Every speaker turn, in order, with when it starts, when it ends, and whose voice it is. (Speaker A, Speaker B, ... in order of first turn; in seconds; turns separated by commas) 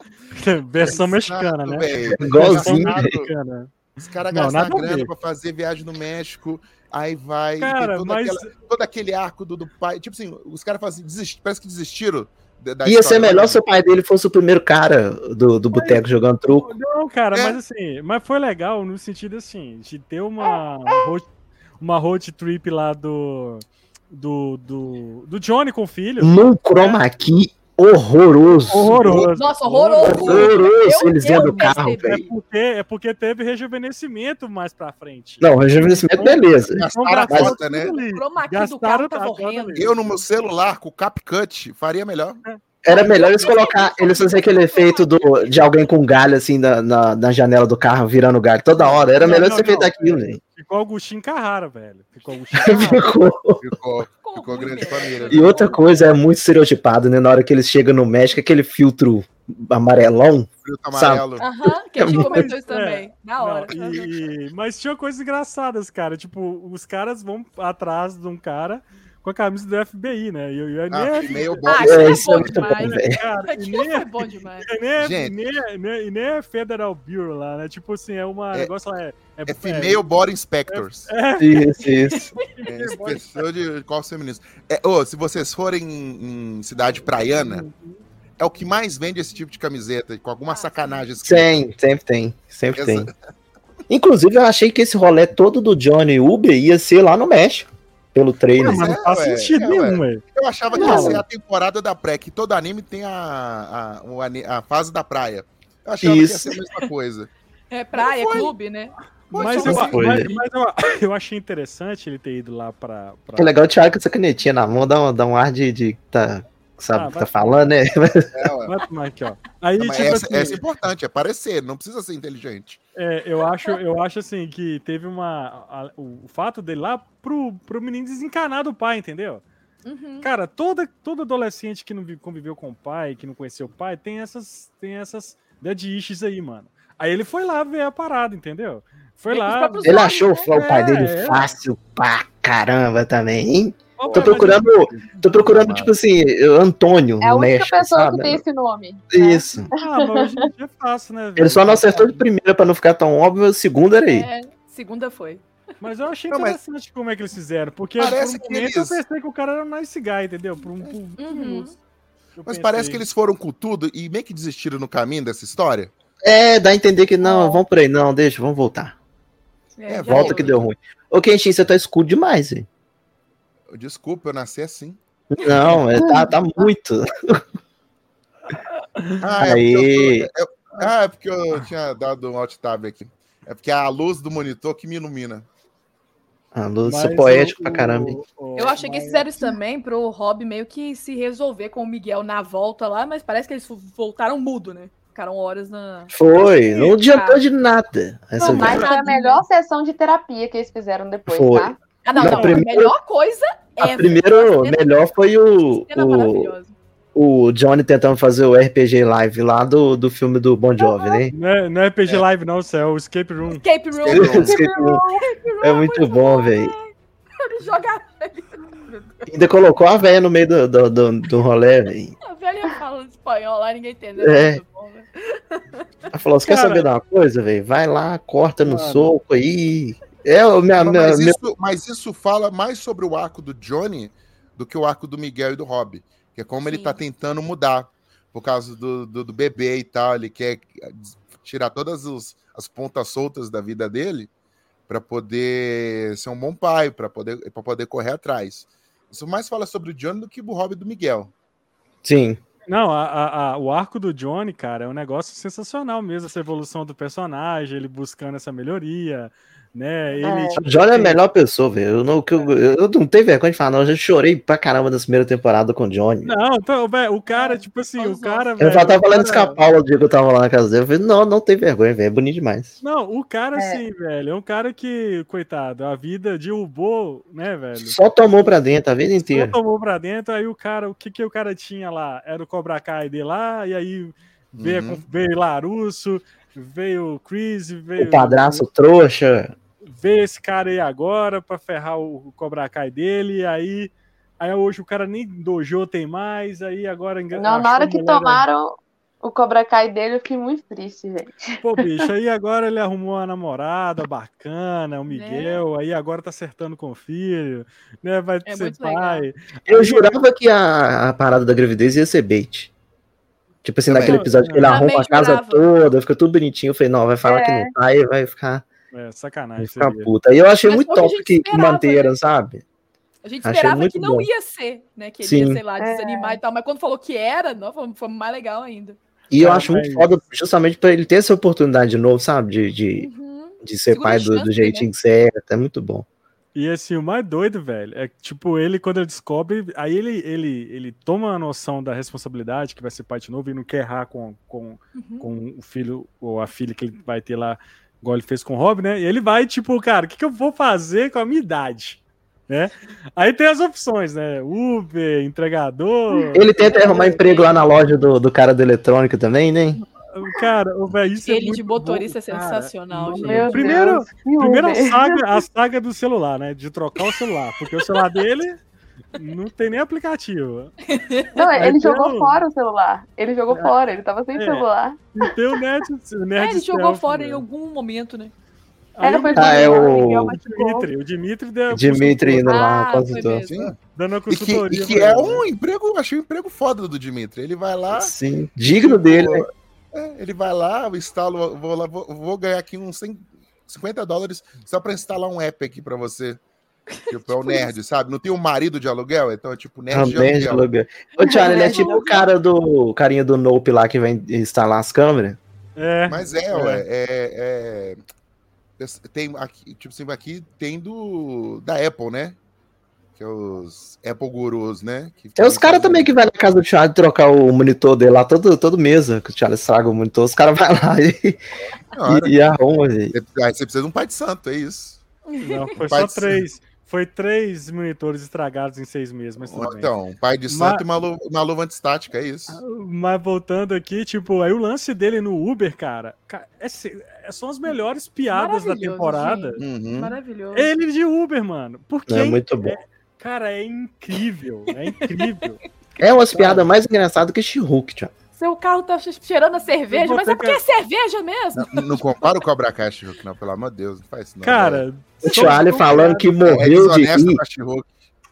Speaker A: 0.3-3.7, Speaker B: 0.8-3.3, Speaker C: 2.1-3.1, Speaker B: 4.0-13.6, Speaker A: 4.3-5.1, Speaker A: 7.6-8.5, Speaker C: 12.8-16.7, Speaker A: 15.7-21.3, Speaker B: 17.3-17.6, Speaker A: 21.8-27.0, Speaker C: 26.2-29.2, Speaker A: 28.7-30.6, Speaker B: 28.8-29.3, Speaker D: 29.4-32.2, Speaker C: 30.1-32.2, Speaker B: 30.2-30.5, Speaker A: 31.3-40.0, Speaker C: 35.4-37.5, Speaker B: 36.7-38.0, Speaker D: 38.0-39.9, Speaker B: 39.7-42.4, Speaker C: 42.8-50.4, Speaker D: 42.9-45.8, Speaker B: 48.8-49.1, Speaker A: 49.2-53.1, Speaker C: 52.5-53.6, Speaker B: 53.6-55.7, Speaker D: 54.2-55.5, Speaker A: 55.2-56.0, Speaker C: 55.3-61.2, Speaker B: 60.6-61.4, Speaker D: 61.4-64.1, Speaker C: 61.9-62.4, Speaker A: 62.1-74.1, Speaker B: 70.9-72.5, Speaker D: 71.6-74.7, Speaker C: 71.8-73.2, Speaker A: 74.6-80.0, Speaker B: 75.0-75.3, Speaker B: 79.5-81.1, Speaker A: 80.7-81.8, Speaker C: 81.4-82.3, Speaker D: 82.0-82.4, Speaker A: 82.5-83.5, Speaker B: 82.7-87.7, Speaker A: 87.3-88.0, Speaker B: 88.4-91.5, Speaker D: 90.5-91.0, Speaker C: 91.2-93.1, Speaker B: 92.7-93.1, Speaker C: 93.9-98.9, Speaker A: 98.6-100.2, Speaker B: 98.6-107.3, Speaker D: 100.7-101.0, Speaker A: 100.8-101.2, Speaker C: 100.8-101.2, Speaker C: 106.0-106.5, Speaker D: 107.7-109.8, Speaker B: 107.9-108.5, Speaker B: 109.3-110.2, Speaker A: 109.3-113.5, Speaker C: 109.6-110.3, Speaker C: 113.4-118.5, Speaker A: 116.9-117.6, Speaker B: 118.3-118.8, Speaker A: 118.7-120.6, Speaker B: 119.8-122.8, Speaker A: 123.0-129.4, Speaker D: 129.8-130.3, Speaker A: 130.2-141.5, Speaker D: 139.3-140.5, Speaker C: 139.8-148.4, Speaker A: 144.0-144.9, Speaker B: 144.1-145.9, Speaker E: 147.2-150.4, Speaker C: 149.1-149.7, Speaker A: 149.7-152.2, Speaker C: 151.4-154.3, Speaker D: 154.1-155.4, Speaker A: 155.8-161.7, Speaker B: 156.3-156.6, Speaker B: 158.0-159.0, Speaker D: 161.2-161.7, Speaker A: 162.4-163.0, Speaker B: 162.4-165.9, Speaker C: 166.2-168.9, Speaker E: 167.2-167.6, Speaker D: 169.8-170.6, Speaker B: 169.9-170.6, Speaker C: 170.1-172.7, Speaker B: 173.7-175.0, Speaker C: 175.3-177.4, Speaker E: 175.9-176.3, Speaker A: 178.5-179.2, Speaker B: 179.2-185.5, Speaker C: 179.4-180.3, Speaker C: 186.5-188.2, Speaker A: 186.8-189.3, Speaker D: 188.6-196.1, Speaker C: 196.1-198.9, Speaker A: 196.7-196.9, Speaker D: 196.8-197.4, Speaker D: 198.4-199.4, Speaker E: 198.4-201.8, Speaker C: 201.3-202.9, Speaker D: 202.0-205.0, Speaker A: 202.2-202.6, Speaker C: 203.8-206.5, Speaker D: 205.7-206.7, Speaker C: 207.1-211.3, Speaker D: 210.8-211.1, Speaker A: 211.3-213.6, Speaker D: 213.5-219.3, Speaker B: 214.0-214.6, Speaker C: 214.1-215.0, Speaker C: 215.6-216.7, Speaker C: 219.3-222.1, Speaker D: 222.2-225.8, Speaker C: 224.2-224.6, Speaker C: 226.1-231.4, Speaker A: 226.4-226.9, Speaker A: 228.6-229.1, Speaker B: 230.8-244.3, Speaker D: 236.7-237.0, Speaker B: 244.9-251.3, Speaker C: 252.0-252.4, Speaker A: 252.7-261.2, Speaker E: 260.2-260.6, Speaker C: 260.6-266.3, Speaker A: 266.2-269.6, Speaker D: 267.3-268.5, Speaker C: 268.6-272.7, Speaker A: 272.8-278.0, Speaker E: 273.5-273.8, Speaker C: 277.8-279.5, Speaker A: 279.2-288.6, Speaker B: 284.6-285.0, Speaker C: 288.0-289.5, Speaker A: 289.9-298.4, Speaker E: 297.3-301.6, Speaker A: 301.6-310.1, Speaker D: 305.1-305.6, Speaker D: 308.4-309.2, Speaker C: 309.7-312.7, Speaker C: 313.6-318.6, Speaker B: 313.8-314.2, Speaker A: 314.0-314.8, Speaker D: 314.6-315.7, Speaker E: 317.2-317.7, Speaker A: 318.9-320.1, Speaker C: 319.6-322.6, Speaker D: 320.6-322.1, Speaker D: 323.2-329.0, Speaker C: 323.4-324.3, Speaker C: 325.2-325.6, Speaker E: 325.8-326.4, Speaker C: 329.3-333.1, Speaker A: 329.4-330.1, Speaker D: 332.9-334.9, Speaker C: 333.6-336.1, Speaker A: 336.5-357.1, Speaker D: 344.9-345.3, Speaker C: 356.3-359.8, Speaker D: 356.6-357.6, Speaker E: 356.7-357.1, Speaker A: 360.1-368.6, Speaker D: 361.2-364.0, Speaker E: 363.2-365.3, Speaker A: 369.1-370.7, Speaker D: 370.9-371.4, Speaker E: 371.3-375.0, Speaker A: 371.5-372.4, Speaker A: 374.3-377.4, Speaker D: 376.4-378.3, Speaker A: 378.9-382.6, Speaker E: 379.0-380.9, Speaker C: 379.3-380.4, Speaker D: 379.4-380.0, Speaker C: 381.7-383.5, Speaker D: 382.4-383.7, Speaker B: 383.5-383.8, Speaker A: 383.9-385.4, Speaker B: 384.3-396.4, Speaker C: 387.9-389.5, Speaker D: 396.9-397.7, Speaker B: 397.1-400.7, Speaker C: 399.9-405.4, Speaker D: 401.2-402.2, Speaker E: 401.2-402.0, Speaker A: 405.8-406.8, Speaker B: 406.1-408.0, Speaker B: 408.8-412.4, Speaker B: 413.1-416.1, Speaker C: 415.4-421.4, Speaker B: 421.9-422.3, Speaker C: 422.1-423.1, Speaker B: 423.1-425.0, Speaker D: 425.3-425.7, Speaker A: 425.4-429.9, Speaker B: 425.8-426.4, Speaker B: 429.4-432.6, Speaker A: 430.5-430.8, Speaker A: 432.5-439.6, Speaker D: 438.3-440.7, Speaker B: 439.6-440.1, Speaker A: 440.5-445.6, Speaker C: 442.1-442.8, Speaker C: 446.0-448.1, Speaker D: 448.4-452.4, Speaker A: 449.9-450.6, Speaker B: 451.5-457.9, Speaker A: 454.4-456.3, Speaker C: 455.2-457.4